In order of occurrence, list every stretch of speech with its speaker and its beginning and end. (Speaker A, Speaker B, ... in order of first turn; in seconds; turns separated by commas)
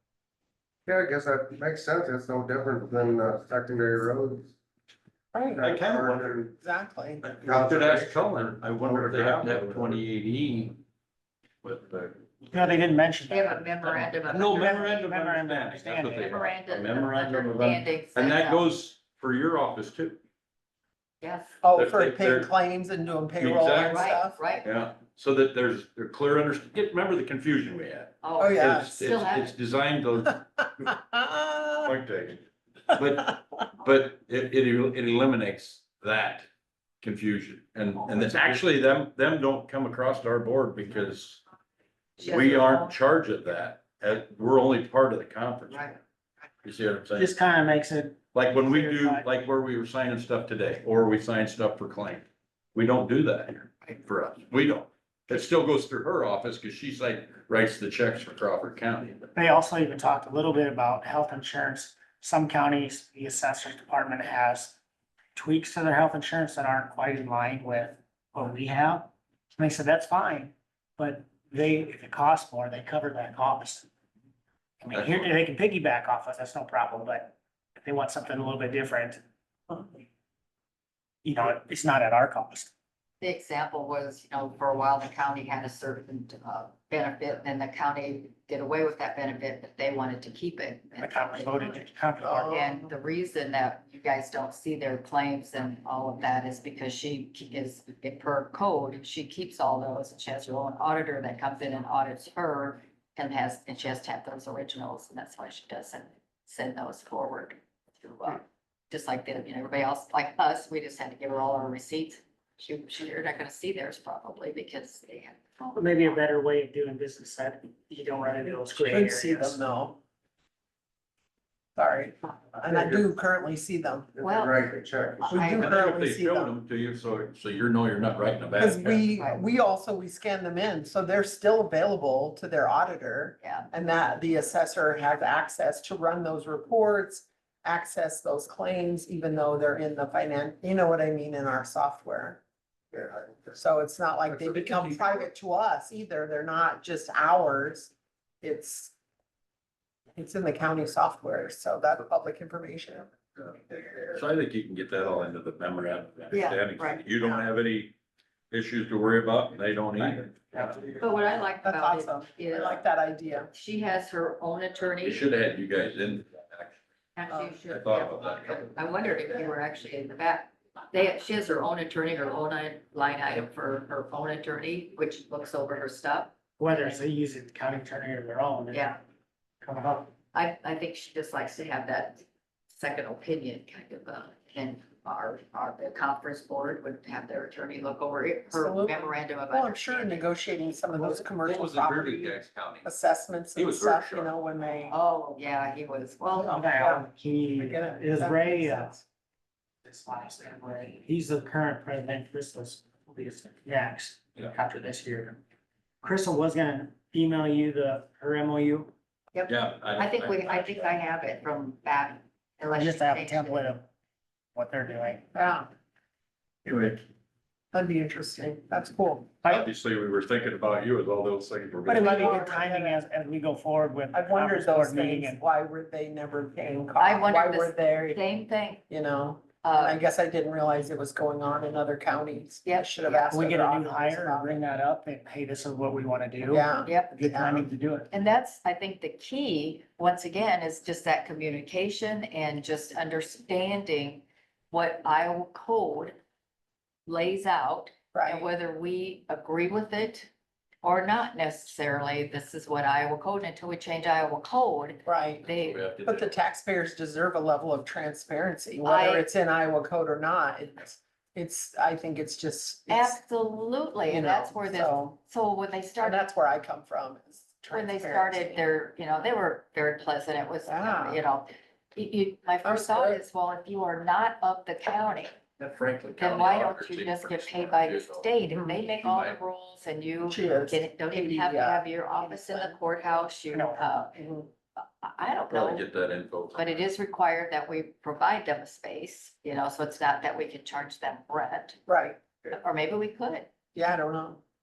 Speaker A: 0.8-4.5, Speaker B: 5.3-5.7, Speaker A: 5.5-6.5, Speaker C: 5.6-6.3, Speaker B: 6.6-7.2, Speaker C: 7.2-10.8, Speaker A: 7.4-10.0, Speaker C: 11.6-12.8, Speaker D: 12.5-13.7, Speaker E: 13.3-15.1, Speaker C: 13.8-20.2, Speaker D: 14.5-16.4, Speaker E: 16.1-18.7, Speaker E: 21.2-21.6, Speaker B: 21.6-24.4, Speaker C: 21.7-22.5, Speaker C: 23.4-30.4, Speaker E: 23.9-24.7, Speaker E: 28.2-29.6, Speaker B: 28.4-29.0, Speaker B: 30.6-31.9, Speaker C: 31.8-36.5, Speaker C: 37.0-41.4, Speaker C: 42.2-45.9, Speaker E: 42.2-43.0, Speaker E: 45.7-46.0, Speaker C: 46.6-47.3, Speaker D: 47.1-49.2, Speaker C: 48.3-59.2, Speaker D: 59.3-64.8, Speaker D: 65.3-73.9, Speaker D: 74.8-79.2, Speaker C: 74.9-75.3, Speaker D: 81.2-82.7, Speaker E: 83.2-91.9, Speaker D: 91.0-92.5, Speaker B: 92.2-92.9, Speaker E: 92.4-116.2, Speaker D: 115.7-119.6, Speaker B: 118.7-120.0, Speaker B: 121.8-124.1, Speaker A: 122.6-123.0, Speaker A: 124.2-125.5, Speaker E: 124.2-124.7, Speaker B: 125.3-126.5, Speaker E: 125.3-125.8, Speaker C: 125.5-129.0, Speaker B: 128.6-142.4, Speaker E: 129.2-129.4, Speaker E: 133.4-133.7, Speaker B: 142.9-148.9, Speaker C: 144.6-145.0, Speaker B: 150.2-153.1, Speaker B: 153.7-154.2, Speaker C: 154.1-157.9, Speaker E: 156.3-157.1, Speaker B: 157.2-157.4, Speaker C: 158.5-160.8, Speaker E: 160.9-162.8, Speaker B: 161.6-163.5, Speaker E: 163.5-165.3, Speaker C: 165.0-166.8, Speaker E: 167.1-176.8, Speaker B: 167.3-167.6, Speaker C: 167.7-168.6, Speaker D: 176.6-178.9, Speaker E: 178.7-179.0, Speaker D: 179.6-180.1, Speaker E: 180.3-190.3, Speaker B: 188.5-195.0, Speaker C: 191.0-192.9, Speaker C: 193.5-194.3, Speaker E: 194.9-196.6, Speaker B: 196.3-199.0, Speaker D: 196.5-198.9, Speaker D: 199.8-205.4, Speaker D: 206.0-208.9, Speaker E: 209.3-213.7, Speaker C: 209.5-210.9, Speaker D: 212.7-213.8, Speaker D: 214.5-215.2, Speaker B: 215.3-215.7, Speaker C: 216.7-216.9, Speaker B: 217.7-219.3, Speaker C: 219.5-222.3, Speaker D: 221.9-225.4, Speaker B: 221.9-223.0, Speaker B: 224.1-228.2, Speaker E: 227.0-228.8, Speaker B: 228.9-234.6, Speaker E: 229.6-230.0, Speaker E: 232.6-233.3, Speaker D: 233.3-238.1, Speaker B: 236.4-237.7, Speaker E: 236.8-237.2, Speaker E: 238.1-246.2, Speaker E: 247.1-250.3, Speaker B: 248.1-248.5, Speaker E: 250.8-255.9, Speaker B: 255.1-255.4, Speaker C: 255.5-256.3, Speaker B: 256.0-263.2, Speaker E: 258.8-259.3, Speaker E: 262.9-266.3, Speaker B: 264.1-265.2, Speaker B: 266.0-268.6, Speaker E: 267.7-275.4, Speaker B: 270.6-271.2, Speaker B: 272.6-273.2, Speaker C: 275.6-278.3, Speaker E: 276.2-284.2, Speaker C: 278.9-279.4, Speaker B: 280.3-282.8, Speaker D: 283.5-283.8, Speaker B: 284.1-284.5, Speaker E: 284.8-285.9, Speaker C: 285.5-286.9, Speaker E: 286.5-291.8, Speaker B: 291.9-292.6, Speaker E: 292.5-293.5, Speaker B: 293.7-294.4